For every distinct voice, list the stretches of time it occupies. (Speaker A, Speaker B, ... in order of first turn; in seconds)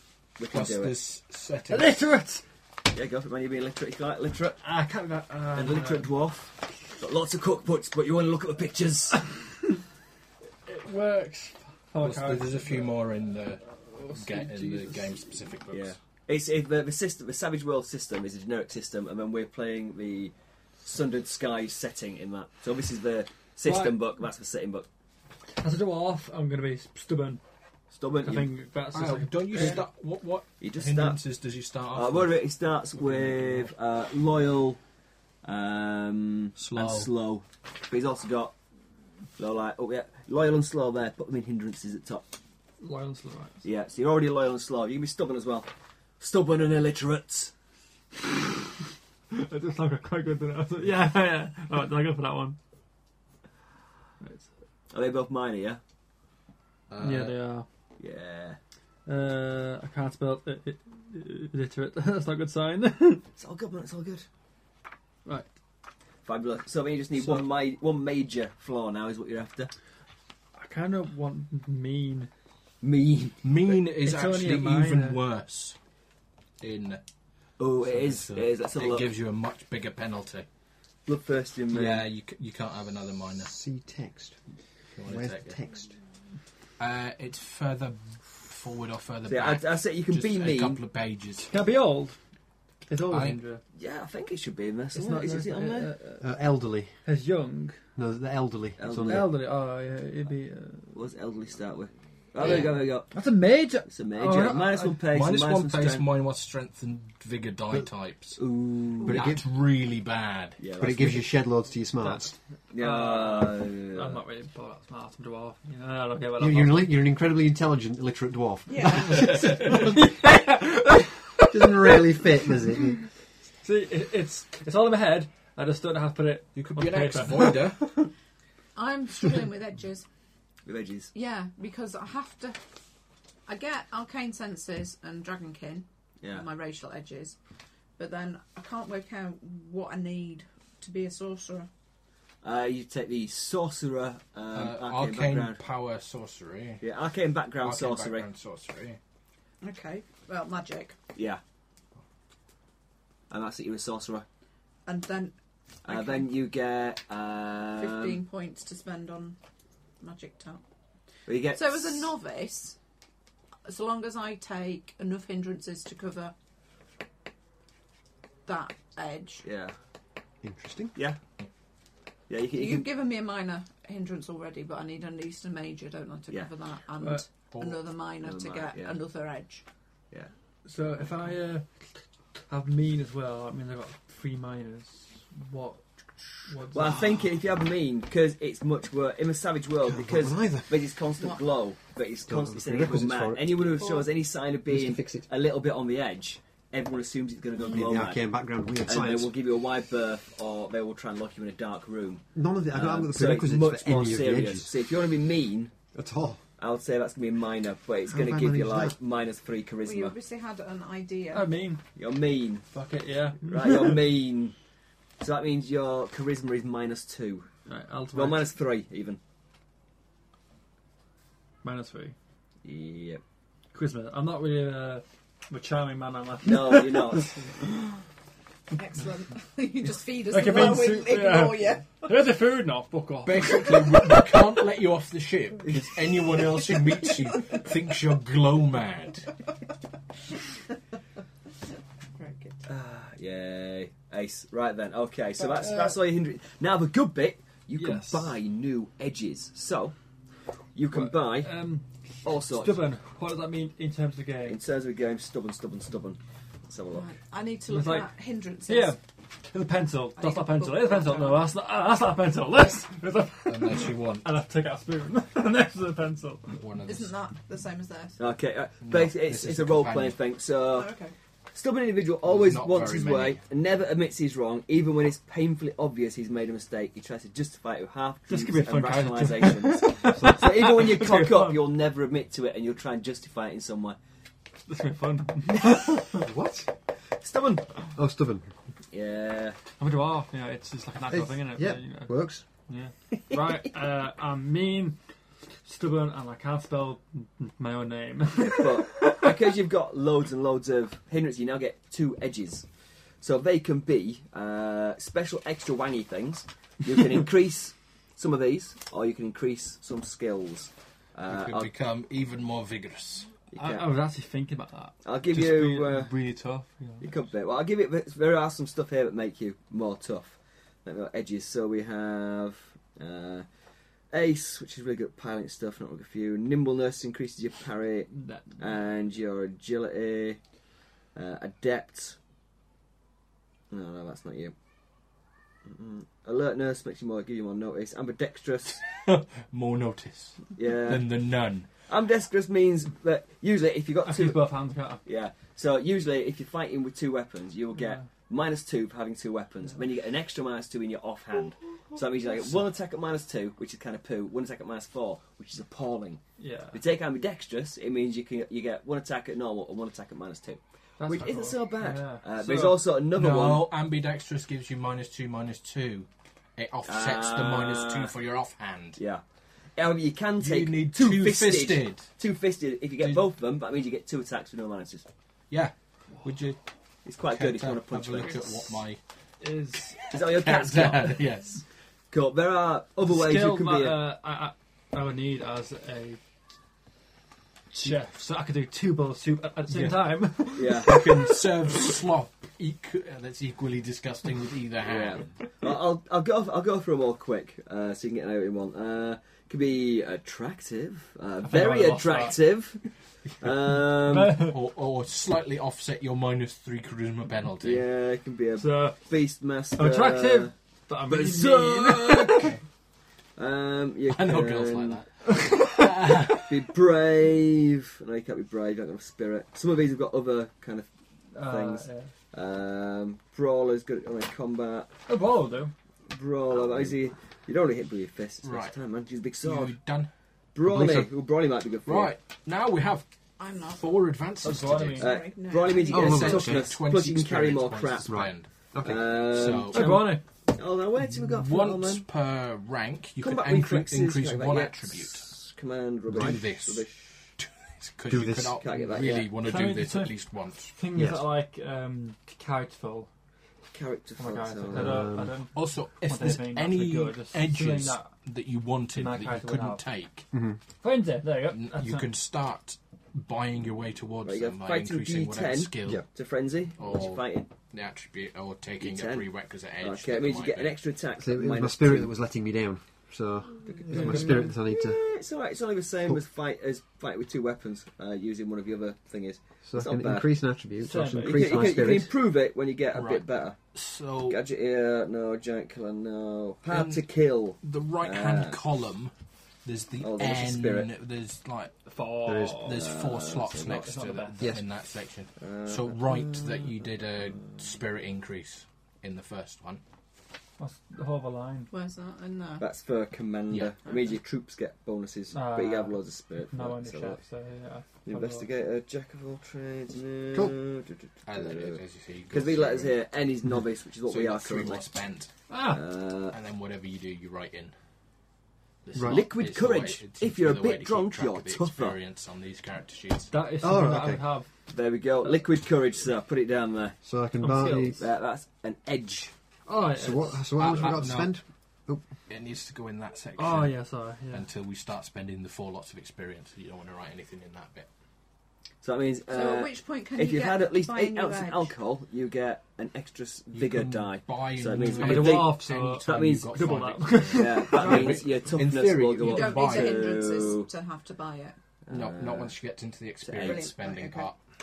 Speaker A: 0.4-1.0, 2.9-4.6, 5.5-9.2, 15.7-24.9, 27.9-28.5, 30.6-31.2, 31.9-34.8, 35.4-38.5, 39.4-42.3, 43.6-47.5, 54.9-55.8, 58.0-58.6, 63.4-64.2, 66.2-69.7, 72.8-73.7, 77.6-79.1, 81.0-82.1, 89.3-90.8, 93.7-95.9, 98.8-99.3, 100.9-103.1, 103.9-106.1, 108.4-109.2, 110.6-111.2, 112.7-114.2, 130.7-131.1, 136.2-136.5, 142.4-145.6, 146.8-148.3, 151.1-151.4, 153.3-154.2, 155.8-158.2, 161.3-162.1, 169.4-169.7, 172.3-172.9, 178.2-179.0, 186.7-198.3, 198.8-205.7, 206.6-210.2, 211.9-212.6, 213.4-214.5, 215.2-217.5, 218.1-219.2, 222.6-223.2, 226.4-227.4, 242.6-249.9, 250.7-251.5, 252.2-252.8, 254.4-257.1, 268.2-270.9, 271.5-284.0, 287.2-287.7, 288.9-289.6, 298.4-302.7, 303.2-311.7, 313.5-313.9, 315.0-316.1, 317.0-323.5, 324.1-330.4, 331.1-332.2, 333.7-334.5, 335.6-338.9, 340.5-341.1, 341.8-344.5, 345.0-356.2, 356.7-363.7, 366.8-368.1, 368.9-369.2, 369.8-375.1, 377.0-378.5, 380.1-381.2, 382.1-384.0, 390.5-390.9, 394.8-402.9, 403.4-404.4, 407.6-410.5, 411.1-412.5, 413.4-415.0, 416.3-420.9, 421.4-424.9, 426.1-429.8, 430.5-432.1, 434.9-438.2, 438.8-442.1, 443.2-447.3, 448.6-449.4, 453.7-455.1, 464.2-467.5, 468.8-472.1, 473.6-480.3, 481.2-483.6, 484.2-488.6, 490.0-490.9, 492.7-493.9, 495.4-497.6, 502.6-507.2, 508.0-514.9, 515.7-516.4, 519.0-522.0, 524.7-527.0, 527.8-529.3, 538.8-546.6, 547.3-550.7, 551.9-552.6, 553.2-553.7
Speaker B: 0.5-2.0, 12.0-15.9, 28.9-32.4, 33.0-33.7, 36.5-37.1, 56.9-57.4, 73.4-75.8, 76.6-77.0, 77.8-80.5, 81.7-83.5, 85.0-85.6, 86.8-91.5, 93.0-93.4, 105.1-108.4, 109.0-111.2, 126.5-128.1, 144.5-146.8, 147.6-149.0, 177.5-177.8, 233.2-239.3, 263.4-264.3, 266.5-267.1, 268.8-270.2, 272.2-273.4, 311.3-313.3, 338.8-341.7, 363.1-369.0, 370.4-372.1, 375.5-376.6, 377.3-379.0, 380.0-381.6, 389.7-395.4, 404.2-407.9, 414.1-416.5, 428.4-428.8, 429.4-430.1, 431.9-433.0, 433.6-435.1, 435.8-438.5, 439.3-440.1, 441.3-445.3, 446.1-450.8, 455.5-460.2, 461.5-466.1, 466.8-470.8, 482.9-484.4, 486.7-487.0, 487.6-491.7, 492.5-499.8, 503.5-503.8, 511.2-513.0, 514.1-515.3, 516.3-517.7, 518.8-523.3, 530.6-531.3, 532.3-537.9, 543.5-550.3, 551.9-554.4
Speaker C: 1.7-2.4, 4.6-6.1, 9.2-9.8, 10.7-12.9, 13.7-15.2, 23.6-24.0, 25.6-27.4, 28.2-29.8, 42.8-43.6, 49.3-52.6, 54.2-54.5, 57.0-57.6, 59.0-63.2, 67.2-67.4, 70.5-72.3, 74.0-75.2, 91.5-92.2, 92.9-93.6, 94.9-96.3, 97.0-97.8, 99.0-101.0, 102.4-105.0, 112.0-117.0, 119.1-122.2, 123.6-128.1, 180.7-181.8, 182.5-187.2, 211.3-211.8, 212.7-214.0, 217.7-218.5, 221.6-222.1, 223.7-227.5, 230.2-234.1, 247.8-248.4, 250.9-254.6, 257.7-259.0, 259.5-266.6, 278.3-281.6, 284.7-286.2, 289.8-295.0, 295.6-299.3, 313.6-317.1, 328.1-328.6, 344.0-345.0, 347.7-348.1, 356.4-356.8, 361.0-362.8, 379.4-380.0, 383.1-386.2, 387.7-391.9, 401.5-402.4, 403.8-404.6, 408.6-409.0, 409.8-412.6, 415.2-416.3, 421.3-422.1, 425.1-425.7, 434.4-435.1, 439.7-440.2, 449.4-453.1, 454.2-458.2, 458.9-459.8, 460.8-462.1, 473.9-474.5, 480.8-481.9, 491.9-492.9, 493.6-494.4, 500.6-501.7, 505.3-508.5, 515.5-515.8, 523.3-524.5, 527.4-528.0, 529.7-531.1, 533.4-534.5, 545.0-548.2
Speaker D: 83.4-84.4, 85.0-86.0, 96.2-96.9, 98.0-99.3, 109.0-109.4, 110.8-112.3, 116.4-119.9, 121.5-123.0, 170.4-170.9, 189.8-190.7, 192.3-193.9, 194.7-195.3, 197.6-199.3, 202.3-204.7, 205.9-206.4, 208.1-208.9, 286.1-286.7, 287.9-288.5, 291.1-292.4, 430.7-431.1, 435.9-436.7, 438.0-439.3, 446.1-446.4, 448.1-448.9, 450.9-451.2, 454.7-455.3, 460.3-460.6, 471.2-475.0, 479.6-482.1, 492.2-492.7, 518.9-519.2, 523.6-524.2, 527.0-528.0, 530.0-532.0
Speaker E: 118.7-119.2, 128.7-130.0, 131.1-132.6, 133.5-137.4, 138.0-141.7, 149.6-151.0, 154.8-155.3, 155.8-156.3, 157.8-159.4, 160.0-160.6, 161.5-162.8, 163.7-166.3, 168.4-169.4, 172.6-179.6, 193.8-194.0, 209.8-211.5, 228.7-232.0, 242.2-242.6, 256.9-258.9, 260.2-261.5, 266.8-268.2, 270.7-271.1, 433.4-434.0, 435.0-436.5, 501.7-502.6, 539.3-541.7, 549.2-551.5, 553.3-554.3